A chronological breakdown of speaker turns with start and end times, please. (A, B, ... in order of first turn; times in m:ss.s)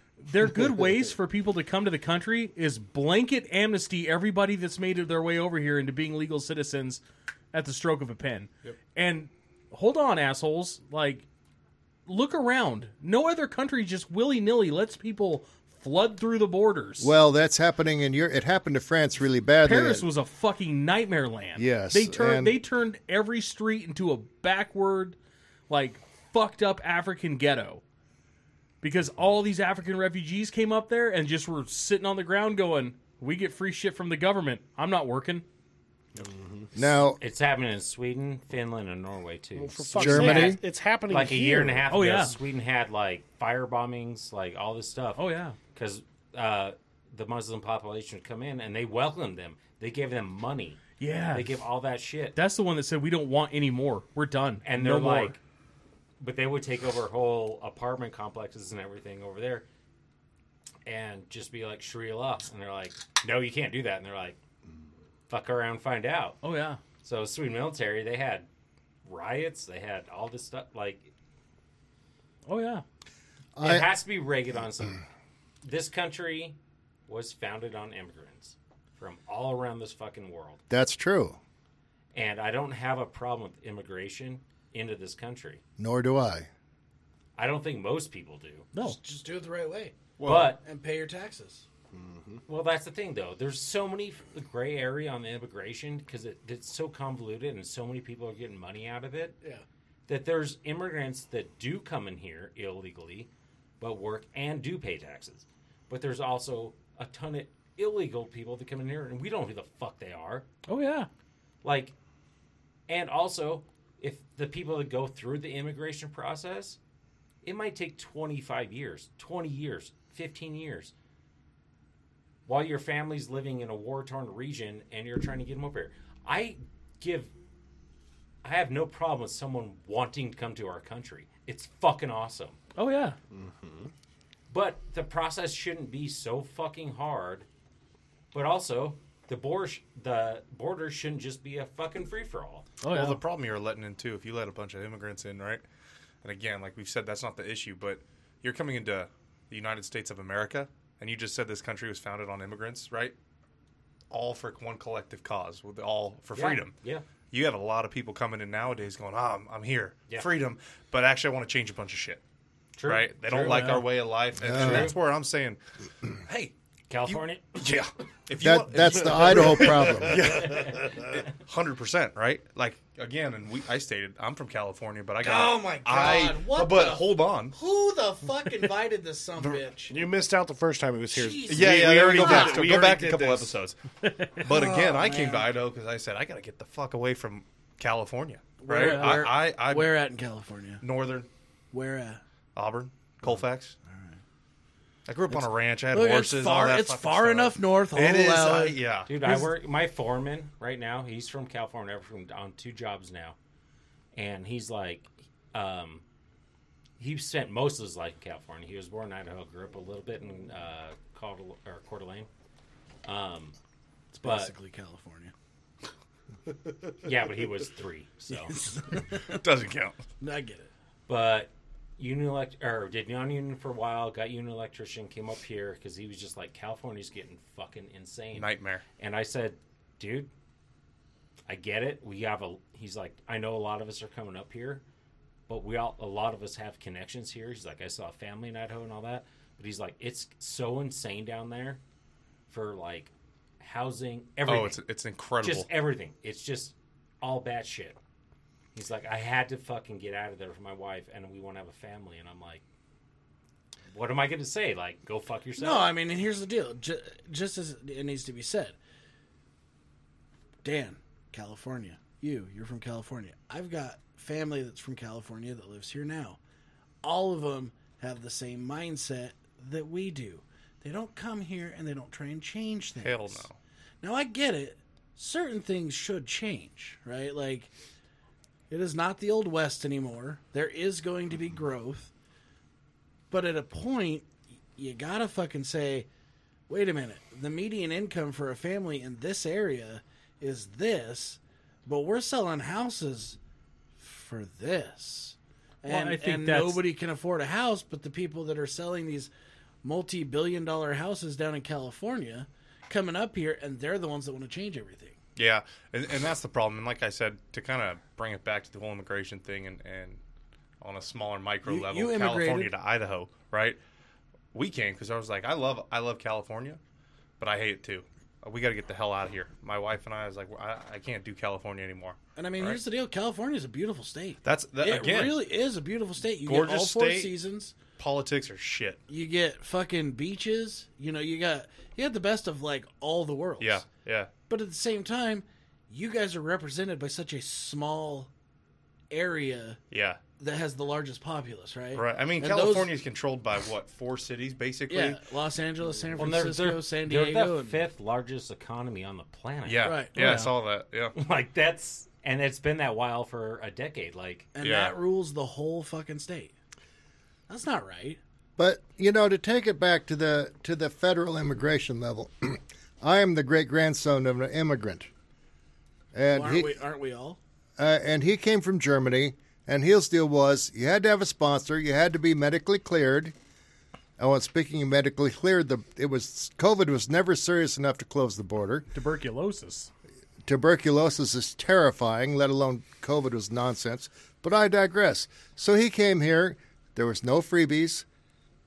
0:00.2-0:07.0 A
0:07.5-0:11.2 A
0:12.1-0:17.1 A
0:17.0-0:20.1 B
0:19.6-0:25.2 A
0:21.6-0:22.5 B
0:25.7-0:27.8 A
0:28.8-0:35.4 A
0:36.1-0:36.7 C
0:36.8-0:37.2 B
0:36.8-0:52.4 D
0:39.5-0:41.9 C
0:40.0-0:40.6 B
0:41.9-0:42.3 A
0:45.2-0:45.6 A
0:51.0-0:51.6 A
0:52.3-0:55.4 A
0:54.6-0:55.4 D
0:56.2-0:59.6 D
1:00.8-1:04.4 D
1:05.3-1:06.4 D
1:06.4-1:06.8 A
1:07.0-1:08.5 D
1:09.0-1:11.1 D
1:12.5-1:12.8 A
1:13.6-1:13.9 B
1:13.6-1:15.0 D
1:15.6-1:16.6 D
1:17.1-1:20.6 D
1:20.7-1:21.4 B
1:22.1-1:25.6 D
1:25.8-1:26.5 B
1:27.4-1:28.7 D
1:28.8-1:31.6 E
1:30.2-1:30.5 F
1:30.2-1:30.6 D
1:31.9-1:32.4 C
1:32.5-1:39.4 D
1:40.1-1:43.3 D
1:43.8-1:50.4 D
1:50.7-1:51.1 A
1:51.6-1:51.9 D
1:52.9-1:56.8 D
1:57.4-2:00.9 D
2:02.4-2:07.3 D
2:08.4-2:12.6 D
2:12.8-2:13.2 A
2:13.3-2:13.9 C
2:14.5-2:17.4 D
2:18.3-2:22.7 D
2:22.8-2:23.2 A
2:22.9-2:25.6 F
2:26.2-2:33.1 F
2:34.1-2:36.7 F
2:36.3-2:37.0 D
2:37.3-2:42.2 F
2:42.8-2:43.8 D
2:42.8-2:45.6 F
2:44.4-2:44.9 B
2:44.6-2:44.9 D
2:46.2-2:46.5 F
2:46.9-2:47.5 D
2:47.0-2:57.6 F
2:48.4-2:50.4 B
2:48.9-2:51.2 C
2:55.2-2:59.9 E
2:59.9-3:03.5 C
3:01.1-3:02.7 E
3:01.4-3:03.8 F
3:04.0-3:04.4 A
3:04.4-3:09.9 F
3:04.4-3:05.5 E
3:08.6-3:10.8 E
3:08.8-3:09.3 A
3:10.8-3:11.3 F
3:11.7-3:12.2 E
3:12.6-3:13.8 F
3:13.2-3:14.2 E
3:15.0-3:19.1 F
3:15.9-3:18.8 E
3:19.1-3:23.4 D
3:24.1-3:26.0 D
3:27.0-3:32.3 D
3:33.0-3:33.6 D
3:34.1-3:35.3 E
3:34.2-3:34.5 D
3:37.0-3:38.6 D
3:38.3-3:39.4 E
3:39.3-3:40.0 F
3:40.2-3:40.7 E
3:41.1-3:50.3 D
3:48.3-3:48.8 F
3:51.5-3:54.8 D
3:55.5-4:01.8 D
4:02.5-4:04.8 D
4:04.4-4:05.7 F
4:05.4-4:08.0 D
4:08.7-4:12.6 D
4:13.9-4:15.9 D
4:15.6-4:18.8 E
4:20.6-4:26.4 E
4:27.0-4:33.4 E
4:33.0-4:33.6 F
4:34.0-4:37.7 E
4:38.7-4:42.1 E
4:43.3-4:46.1 E
4:46.7-4:53.4 E
4:54.0-4:59.3 E
4:55.8-4:56.8 A
4:59.8-5:05.2 E
5:05.4-5:10.2 F
5:10.8-5:13.8 F
5:11.6-5:12.7 E
5:14.5-5:16.8 F
5:17.4-5:22.8 F
5:22.4-5:27.8 E
5:24.4-5:25.4 F
5:26.4-5:27.3 F
5:28.0-5:29.0 F
5:29.1-5:33.8 E
5:33.6-5:34.3 F
5:34.5-5:38.3 E
5:39.1-5:39.8 E
5:39.9-5:40.2 F
5:40.4-5:42.9 E
5:41.9-5:45.2 F
5:44.9-5:47.8 E
5:46.2-5:49.9 D
5:49.6-5:51.1 F
5:49.8-5:50.4 E
5:50.2-5:50.5 A
5:51.1-5:54.5 D
5:54.5-5:56.5 E
5:54.6-5:54.9 F
5:57.5-5:58.2 E
5:58.6-6:05.1 B
6:06.1-6:06.7 B
6:06.3-6:07.4 E
6:07.8-6:13.3 B
6:14.2-6:18.9 B
6:18.9-6:19.9 A
6:20.4-6:28.0 B